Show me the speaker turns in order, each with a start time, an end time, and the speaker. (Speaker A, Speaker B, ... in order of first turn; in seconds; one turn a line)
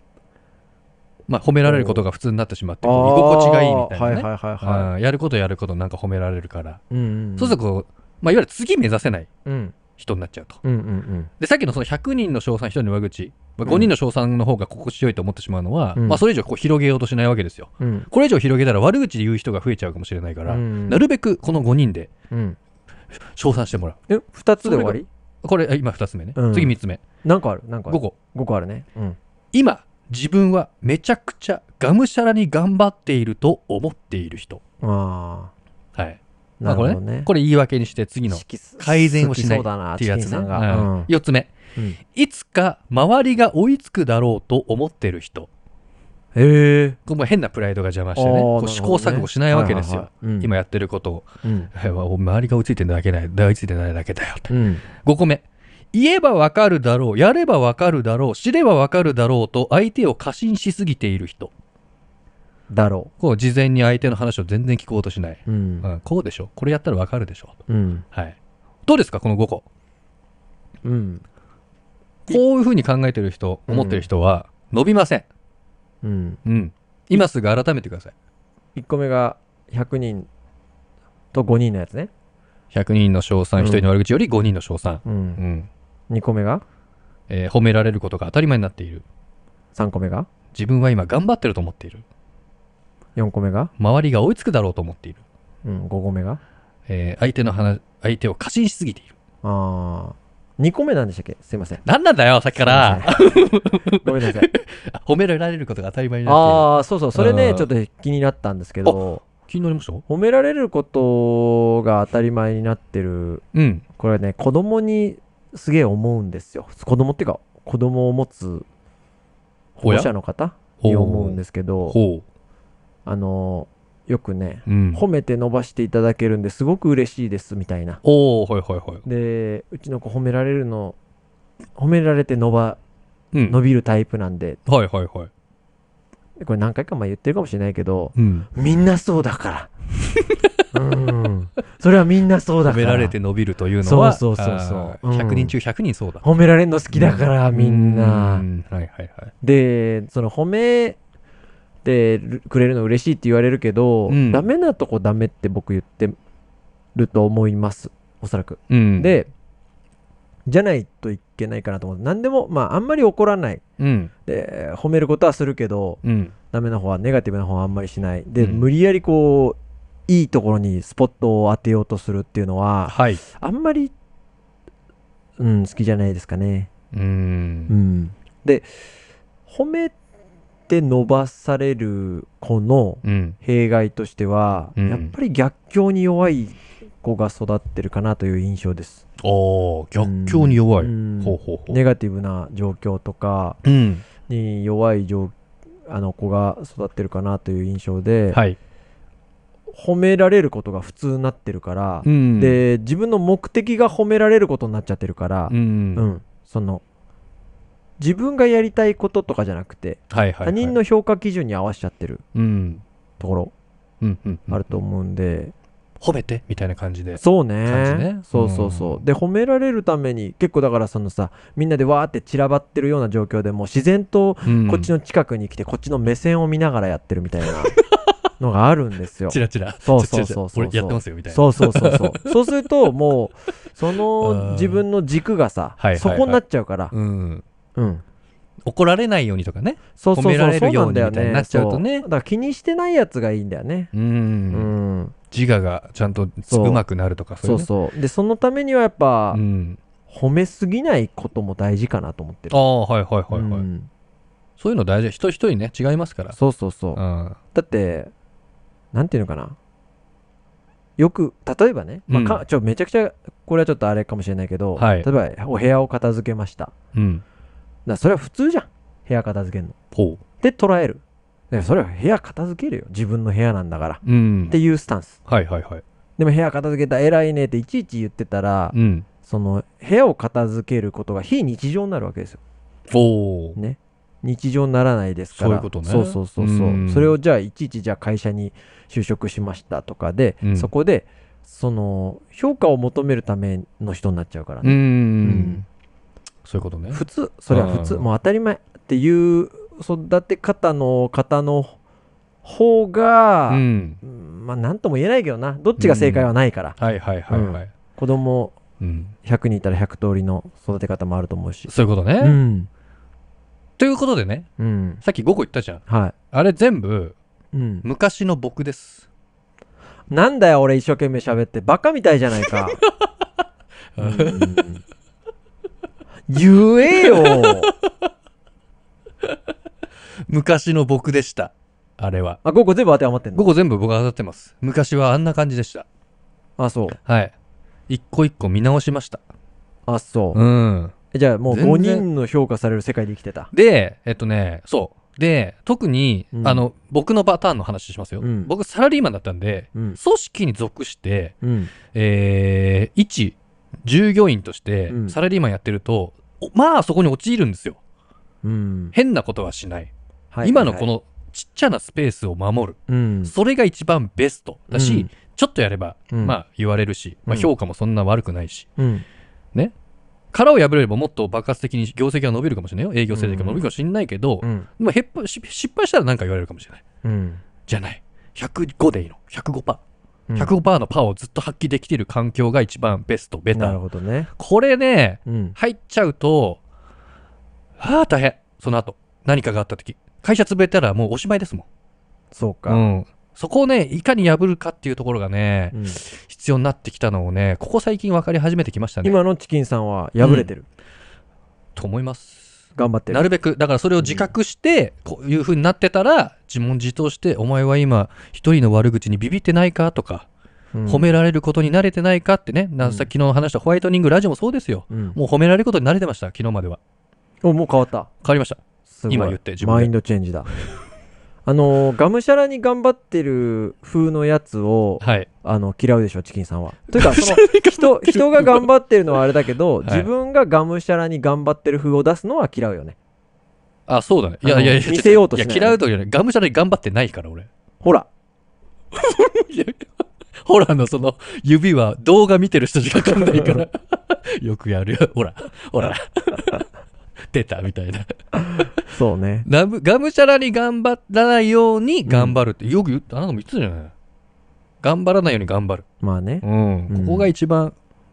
Speaker A: 1.3-6.8
Speaker B: 1.6-2.0
Speaker B: 2.8-4.9
Speaker B: 6.9-7.6
Speaker A: 7.4-9.3
Speaker B: 9.5-9.8
Speaker A: 10.0-10.6
Speaker B: 10.6-11.3
Speaker A: 11.4-22.1
Speaker B: 13.7-13.9
Speaker B: 16.0-16.2
Speaker B: 17.8-18.1
Speaker B: 20.5-21.0
Speaker B: 22.3-22.6
Speaker A: 23.4-24.0
Speaker B: 24.1-25.1
Speaker A: 24.6-27.0
Speaker B: 26.4-29.2
Speaker A: 27.9-28.1
Speaker A: 29.5-34.6
Speaker B: 34.8-35.5
Speaker A: 36.0-41.5
Speaker B: 36.6-37.3
Speaker B: 38.3-41.1
Speaker A: 42.1-45.5
Speaker B: 46.4-47.0
Speaker A: 47.1-61.5
Speaker B: 48.2-50.5
Speaker B: 51.4-51.7
Speaker B: 54.5-54.8
Speaker B: 62.7-63.1
Speaker A: 63.2-69.7
Speaker B: 65.5-65.9
Speaker B: 67.7-68.0
Speaker B: 70.8-71.2
Speaker A: 72.3-75.3
Speaker B: 73.7-74.1
Speaker B: 76.0-76.4
Speaker A: 76.5-78.1
Speaker B: 78.8-80.3
Speaker B: 81.3-82.1
Speaker A: 82.7-85.7
Speaker B: 83.6-83.9
Speaker B: 85.0-85.4
Speaker B: 86.1-86.6
Speaker A: 87.3-89.0
Speaker B: 89.7-90.3
Speaker A: 90.5-92.0
Speaker B: 93.2-93.7
Speaker A: 93.8-95.2
Speaker B: 95.7-96.4
Speaker A: 96.9-99.1
Speaker B: 99.4-101.8
Speaker A: 101.8-107.7
Speaker B: 102.6-103.2
Speaker B: 104.0-104.5
Speaker B: 106.3-109.2
Speaker A: 108.8-110.0
Speaker B: 110.1-113.4
Speaker A: 113.5-113.8
Speaker B: 114.0-118.7
Speaker B: 119.8-122.0
Speaker A: 119.8-120.1
Speaker A: 120.8-122.2
Speaker B: 123.0-128.0
Speaker A: 124.7-125.0
Speaker A: 128.0-129.0
Speaker B: 129.1-131.0
Speaker B: 131.8-132.8
Speaker B: 133.5-134.6
Speaker A: 134.7-135.3
Speaker B: 136.4-139.7
Speaker A: 138.2-138.5
Speaker B: 140.7-143.2
Speaker A: 142.7-146.2
Speaker B: 143.8-145.5
Speaker B: 146.2-148.5
Speaker A: 146.9-149.3
Speaker B: 149.4-151.0
Speaker B: 151.8-156.2
Speaker A: 154.1-154.5
Speaker B: 156.9-159.3
Speaker A: 158.7-159.1
Speaker B: 160.5-163.6
Speaker A: 163.8-164.1
Speaker B: 164.3-173.9
Speaker A: 166.0-166.3
Speaker A: 168.4-168.7
Speaker A: 172.9-173.2
Speaker B: 175.4-176.7
Speaker A: 176.9-177.7
Speaker B: 177.7-178.7
Speaker B: 179.5-179.9
Speaker B: 180.7-189.0
Speaker A: 183.0-183.4
Speaker A: 184.8-185.1
Speaker A: 189.2-191.8
Speaker B: 190.0-193.6
Speaker A: 193.6-194.1
Speaker B: 194.3-195.3
Speaker B: 195.9-198.4
Speaker A: 198.3-198.6
Speaker B: 199.7-206.8
Speaker A: 202.0-202.6
Speaker A: 205.5-206.1
Speaker B: 208.0-212.2
Speaker A: 210.1-210.8
Speaker A: 212.3-212.8
Speaker B: 213.2-213.5
Speaker A: 214.0-214.7
Speaker B: 214.5-215.5
Speaker A: 216.0-219.0
Speaker B: 217.2-227.8
Speaker A: 224.4-224.9
Speaker A: 227.8-228.1
Speaker B: 228.4-236.9
Speaker A: 229.3-232.4
Speaker A: 234.1-234.8
Speaker A: 235.8-236.4
Speaker A: 236.9-237.4
Speaker B: 237.8-238.0
Speaker A: 238.7-242.1
Speaker B: 240.0-243.9
Speaker A: 243.9-244.7
Speaker B: 244.5-245.2
Speaker A: 245.3-247.7
Speaker B: 246.5-246.8
Speaker B: 247.4-249.4
Speaker A: 249.3-249.8
Speaker B: 250.1-252.6
Speaker A: 252.5-253.7
Speaker B: 253.3-253.9
Speaker A: 254.6-256.4
Speaker B: 256.4-257.0
Speaker A: 256.9-257.4
Speaker B: 257.5-258.1
Speaker B: 258.9-259.6
Speaker B: 261.0-266.7
Speaker A: 262.1-262.4
Speaker A: 264.8-265.1
Speaker A: 266.9-267.2
Speaker B: 267.9-269.8
Speaker A: 269.9-270.2
Speaker B: 270.4-275.2
Speaker A: 274.1-274.6
Speaker A: 275.3-275.8
Speaker B: 276.2-282.4
Speaker A: 278.7-279.1
Speaker A: 282.9-283.6
Speaker B: 283.6-295.6
Speaker A: 285.3-287.1
Speaker A: 290.4-290.7
Speaker A: 294.6-295.6
Speaker A: 296.4-298.1
Speaker B: 296.9-301.8
Speaker B: 302.4-306.8
Speaker A: 303.5-304.0
Speaker A: 305.8-307.7
Speaker B: 307.3-308.6
Speaker A: 308.8-309.1
Speaker B: 309.2-312.7
Speaker A: 311.7-312.4
Speaker A: 313.8-314.5
Speaker B: 314.6-315.0
Speaker A: 315.0-317.2
Speaker B: 315.9-316.1
Speaker B: 317.5-317.9
Speaker A: 317.8-319.1
Speaker B: 320.1-322.8
Speaker A: 324.0-324.6
Speaker B: 324.0-324.8
Speaker B: 326.3-327.7
Speaker A: 327.0-327.7
Speaker A: 330.3-332.4
Speaker B: 332.4-333.5
Speaker A: 333.3-335.9
Speaker B: 336.6-337.0
Speaker A: 337.1-337.3
Speaker A: 337.9-339.2
Speaker B: 339.9-340.4
Speaker A: 340.3-340.9
Speaker B: 341.1-343.5
Speaker A: 341.5-342.1
Speaker A: 343.5-351.4
Speaker B: 346.3-346.6
Speaker B: 348.2-348.5
Speaker B: 351.4-351.7
Speaker A: 351.9-357.8
Speaker B: 354.9-355.2
Speaker B: 358.4-358.9
Speaker A: 358.9-359.9
Speaker B: 360.3-360.9
Speaker A: 360.4-368.7
Speaker B: 362.9-363.3
Speaker B: 364.7-365.1
Speaker B: 366.1-366.4
Speaker B: 368.8-369.1
Speaker A: 370.3-376.8
Speaker B: 373.1-373.6
Speaker B: 374.4-374.7
Speaker B: 377.0-377.4
Speaker A: 377.7-379.8
Speaker A: 380.4-383.8
Speaker B: 383.5-384.3
Speaker A: 384.4-386.6
Speaker B: 385.3-385.6
Speaker A: 387.8-391.7
Speaker B: 392.3-392.8
Speaker A: 392.7-399.2
Speaker B: 395.7-396.0
Speaker B: 399.0-400.7
Speaker A: 400.2-400.5
Speaker A: 401.8-410.3
Speaker B: 402.8-403.3
Speaker B: 404.0-404.3
Speaker B: 410.7-411.1
Speaker A: 410.9-416.8
Speaker B: 412.8-413.1
Speaker B: 414.9-415.2
Speaker B: 417.4-418.1
Speaker A: 418.2-419.9
Speaker B: 418.9-420.5
Speaker B: 421.5-433.0
Speaker A: 425.0-425.3
Speaker A: 426.9-428.7
Speaker A: 429.8-430.1
Speaker A: 433.9-437.5
Speaker B: 434.4-435.8
Speaker B: 437.8-438.1
Speaker A: 438.9-439.9
Speaker A: 440.4-446.6
Speaker A: 447.3-448.8
Speaker B: 448.5-449.5
Speaker A: 449.4-453.9
Speaker B: 452.1-452.4
Speaker A: 454.8-455.9
Speaker B: 456.0-457.3
Speaker A: 456.4-457.7